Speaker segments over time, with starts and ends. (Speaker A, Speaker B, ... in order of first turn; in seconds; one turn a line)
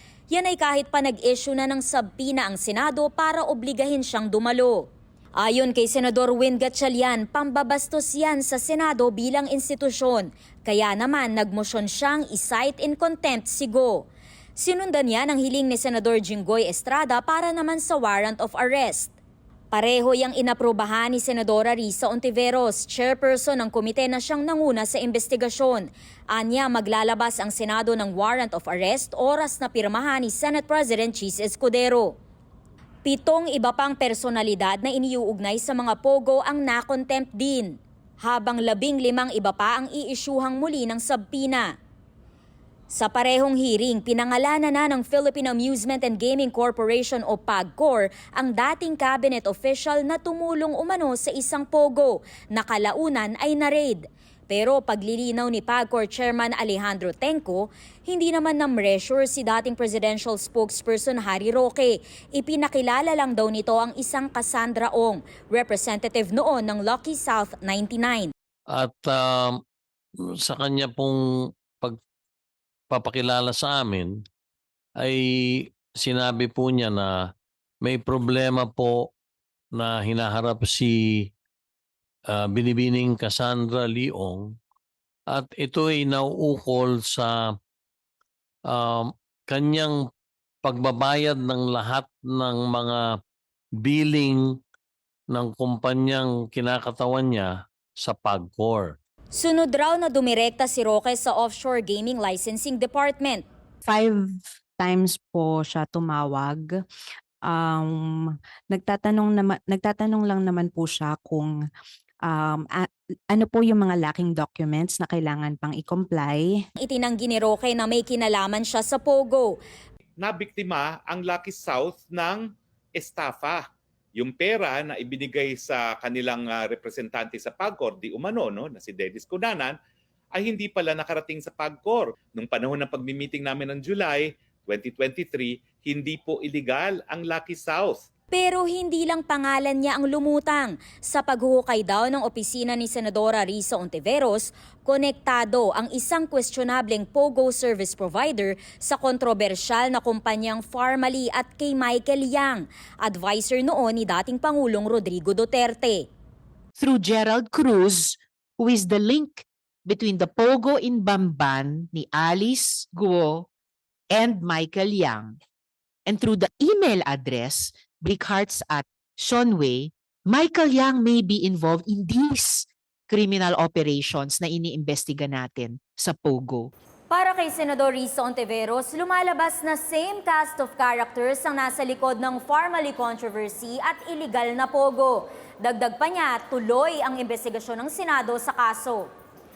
Speaker A: 0.3-4.8
Speaker A: 5.4-19.1
Speaker A: 19.7-32.1
Speaker A: 33.0-41.7
Speaker A: 42.9-68.3
Speaker B: 68.7-69.5
Speaker B: 70.4-71.2
Speaker B: 72.9-74.1
Speaker B: 75.0-77.1
Speaker B: 77.8-79.0
Speaker B: 79.7-80.9
Speaker B: 82.3-84.5
Speaker B: 85.3-87.3
Speaker B: 88.7-90.0
Speaker B: 90.6-93.0
Speaker B: 93.8-94.4
Speaker B: 95.3-98.9
Speaker A: 99.3-103.4
Speaker C: 103.8-106.7
Speaker C: 107.5-107.9
Speaker C: 108.7-111.5
Speaker C: 112.3-116.6
Speaker A: 116.8-119.5
Speaker D: 120.2-129.8
Speaker D: 130.3-138.0
Speaker A: 138.3-156.1
Speaker E: 156.8-163.5
Speaker E: 164.1-165.4
Speaker E: 166.1-176.7
Speaker A: 177.1-189.1